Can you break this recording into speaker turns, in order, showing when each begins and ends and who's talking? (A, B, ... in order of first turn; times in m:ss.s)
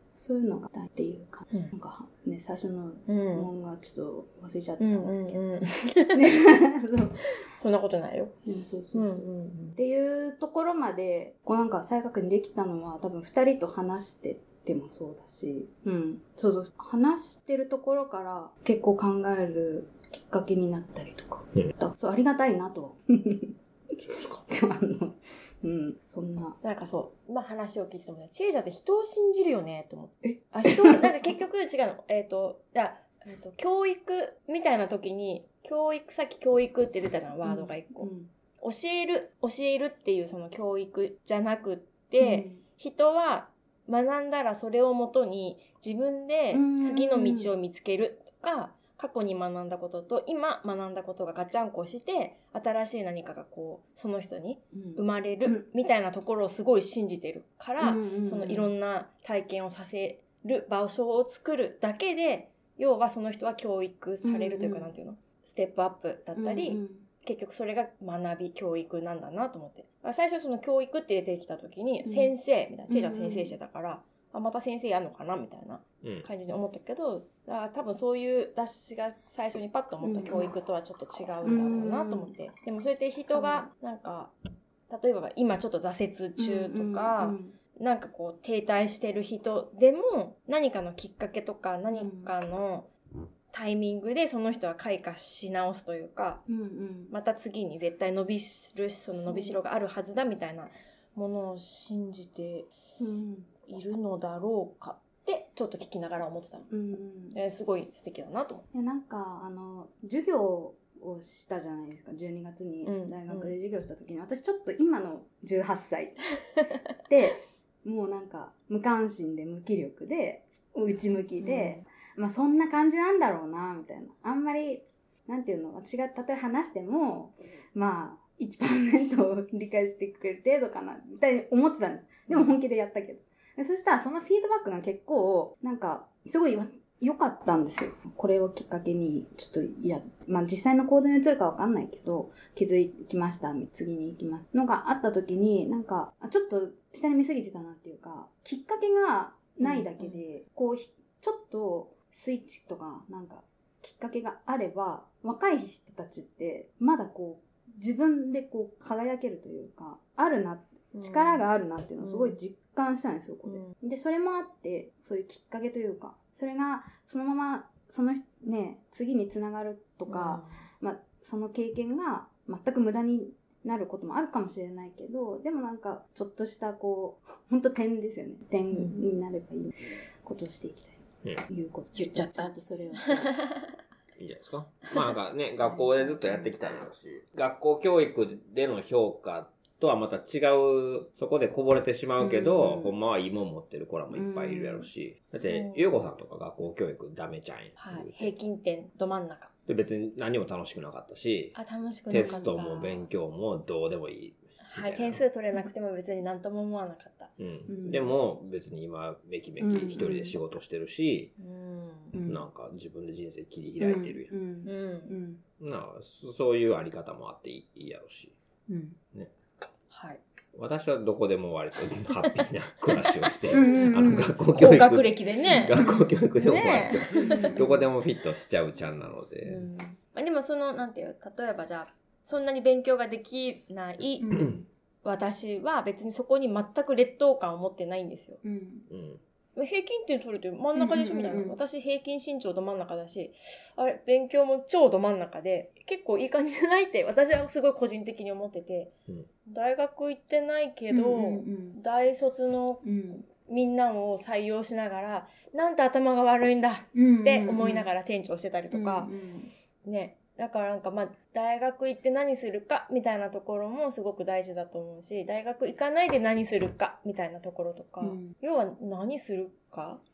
0:00.2-0:05.4 A
0:03.1-0:03.5 B
0:04.8-0:06.3 B
0:06.1-0:07.2 A
0:07.6-0:08.4 B
0:08.4-0:09.2 A
0:08.9-0:09.8 B
0:09.8-0:23.5 A
0:24.0-0:24.4 C
0:24.5-0:26.6 A
0:26.6-0:38.1 B
0:30.2-0:31.4 A
0:37.4-0:38.3 A
0:38.6-1:24.3 B
0:42.2-0:42.6 A
0:46.5-0:47.5 A
0:54.7-0:55.6 A
0:57.8-0:58.7 A
1:04.2-1:04.9 A
1:06.4-1:07.1 A
1:12.0-1:12.3 A
1:12.9-1:13.6 A
1:16.0-1:16.3 C
1:20.0-1:20.5 A
1:21.4-1:22.3 A
1:23.3-1:23.7 A
1:24.9-1:32.9 B
1:26.4-1:27.6 A
1:31.9-1:32.3 A
1:33.5-1:36.4 B
1:36.5-1:37.1 A
1:37.1-1:42.7 B
1:39.2-1:39.6 A
1:43.0-1:43.6 A
1:43.7-1:46.7 B
1:46.7-1:47.4 A
1:47.3-1:48.6 B
1:48.7-1:56.2 A
1:52.8-1:53.5 B
1:57.1-3:03.3 A
2:01.4-2:01.8 B
2:12.3-2:12.5 B
2:29.6-2:30.2 B
2:40.9-2:41.5 B
2:42.0-2:42.4 B
2:43.5-2:43.7 B
2:50.1-2:50.6 B
2:58.7-2:59.0 B
3:02.0-3:03.7 B
3:04.2-3:18.4 C
3:05.7-3:06.4 A
3:12.2-3:12.9 A
3:14.1-3:14.9 A
3:15.4-3:16.0 B
3:17.8-3:19.5 B
3:19.7-3:21.6 C
3:21.6-3:23.1 B
3:22.1-3:25.2 C
3:22.1-3:22.5 A
3:24.6-3:27.3 B
3:27.4-3:31.3 C
3:27.7-3:28.1 A
3:29.6-3:30.3 A
3:30.0-3:30.3 B
3:31.4-3:32.2 B
3:32.1-3:32.4 A
3:32.3-3:34.3 C
3:33.8-3:35.4 A
3:34.6-3:35.2 B
3:35.6-3:38.4 C
3:38.7-3:39.0 A
3:39.9-3:40.2 B
3:40.6-3:49.7 C
3:43.5-3:44.4 A
3:43.5-3:45.8 B
3:46.4-3:47.7 B
3:47.2-3:47.9 A
3:49.5-3:54.4 B
3:54.2-3:54.6 A
3:54.3-3:54.6 C
3:55.0-3:58.4 B
3:58.4-3:58.9 A
3:58.9-3:59.2 C
3:59.6-4:08.9 B
4:00.8-4:01.6 A
4:09.5-4:19.1 B
4:10.9-4:11.8 A
4:12.8-4:13.2 A
4:17.0-4:17.9 A
4:18.7-4:19.5 A
4:19.8-4:30.0 B
4:28.0-4:28.4 A